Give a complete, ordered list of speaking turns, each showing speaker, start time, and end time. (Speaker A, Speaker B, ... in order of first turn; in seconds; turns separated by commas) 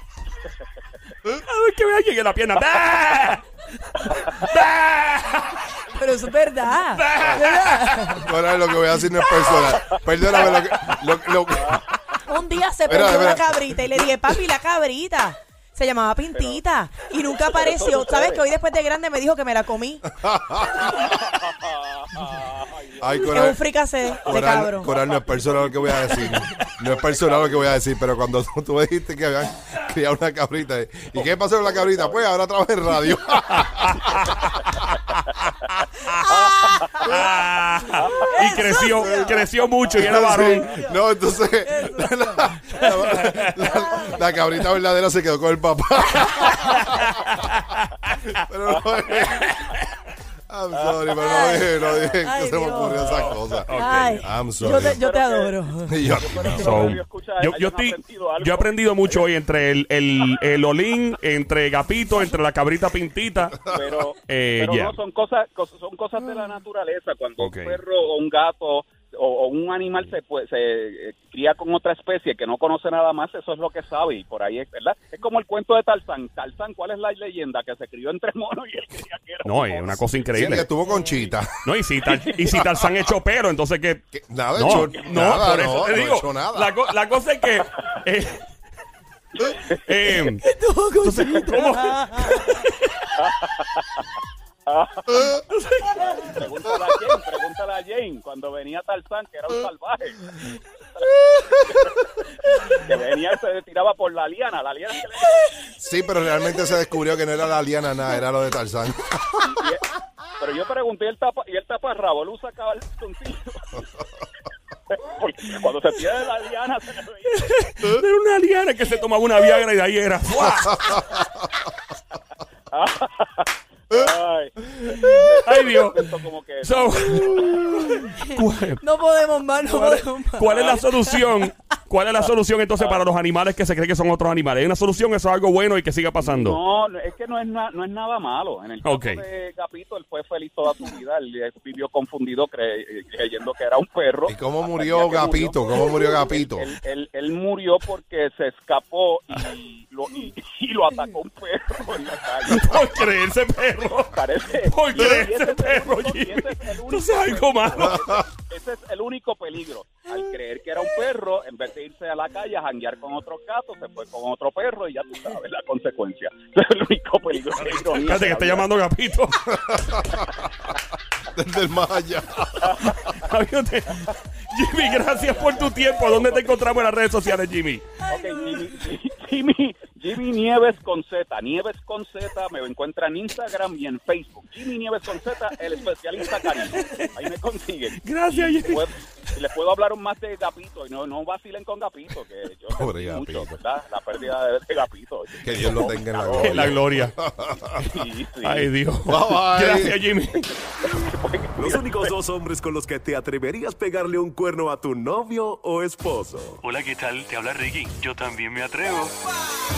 Speaker A: 1.3-5.7, Speaker B: 4.1-4.5, Speaker C: 5.9-8.3, Speaker A: 6.8-8.2, Speaker D: 8.1-11.8, Speaker B: 9.8-11.0, Speaker B: 11.5-12.2, Speaker C: 12.2-20.1, Speaker D: 12.9-13.4, Speaker B: 16.3-16.6, Speaker B: 17.4-18.4, Speaker D: 20.1-21.0, Speaker B: 20.7-23.5, Speaker D: 23.0-23.6, Speaker C: 23.2-24.9, Speaker B: 24.1-27.8, Speaker D: 24.2-34.8, Speaker B: 31.1-32.3, Speaker A: 33.5-34.5, Speaker D: 35.6-36.1, Speaker C: 36.1-37.2, Speaker B: 36.6-36.9, Speaker A: 37.0-40.7, Speaker C: 38.2-39.5, Speaker D: 39.0-39.3, Speaker D: 40.0-47.4, Speaker C: 40.6-41.0, Speaker C: 41.6-44.3, Speaker A: 42.8-43.7, Speaker A: 46.5-47.9, Speaker D: 48.3-49.7, Speaker B: 48.6-49.5, Speaker A: 49.2-49.8, Speaker D: 50.5-55.0, Speaker B: 50.7-52.2, Speaker C: 51.2-51.7, Speaker C: 52.2-53.0, Speaker B: 52.8-53.6, Speaker A: 53.0-54.3, Speaker C: 53.7-56.0, Speaker B: 54.7-59.3, Speaker D: 55.9-56.8, Speaker A: 56.4-63.6, Speaker B: 63.7-80.5, Speaker A: 64.2-65.0, Speaker A: 67.4-67.8, Speaker A: 79.4-80.7, Speaker D: 80.3-81.6, Speaker C: 80.8-81.3, Speaker A: 81.6-88.4, Speaker D: 82.5-82.8, Speaker D: 84.1-86.7, Speaker B: 84.7-85.2, Speaker B: 89.4-89.8, Speaker A: 89.8-90.5, Speaker C: 90.2-92.5, Speaker A: 91.0-92.7, Speaker B: 93.2-94.0, Speaker B: 94.7-95.4, Speaker A: 95.5-96.3, Speaker B: 95.9-102.1, Speaker B: 102.6-105.5, Speaker D: 105.8-109.5, Speaker B: 109.4-113.8, Speaker B: 114.9-117.5, Speaker A: 117.3-121.0, Speaker B: 122.7-128.1, Speaker A: 125.5-126.0, Speaker A: 126.6-128.8, Speaker C: 127.8-130.8, Speaker A: 129.6-136.6, Speaker B: 130.4-130.8, Speaker B: 132.2-133.0, Speaker B: 136.2-152.9, Speaker A: 138.8-139.2, Speaker D: 144.2-146.7, Speaker A: 152.5-158.0, Speaker B: 154.1-168.7, Speaker D: 157.8-158.2, Speaker A: 167.6-169.5, Speaker D: 169.5-170.7, Speaker D: 171.3-173.0, Speaker B: 172.6-173.2, Speaker A: 172.9-177.9, Speaker B: 174.8-176.9, Speaker B: 178.1-196.7, Speaker C: 178.1-178.8, Speaker A: 186.4-187.0, Speaker A: 187.9-188.9, Speaker D: 192.7-193.5, Speaker D: 195.4-197.8, Speaker A: 195.6-195.8, Speaker A: 196.4-197.2, Speaker A: 197.8-200.5, Speaker B: 197.8-198.7, Speaker D: 199.1-200.0, Speaker B: 200.8-202.2, Speaker E: 201.6-206.6, Speaker F: 206.6-209.1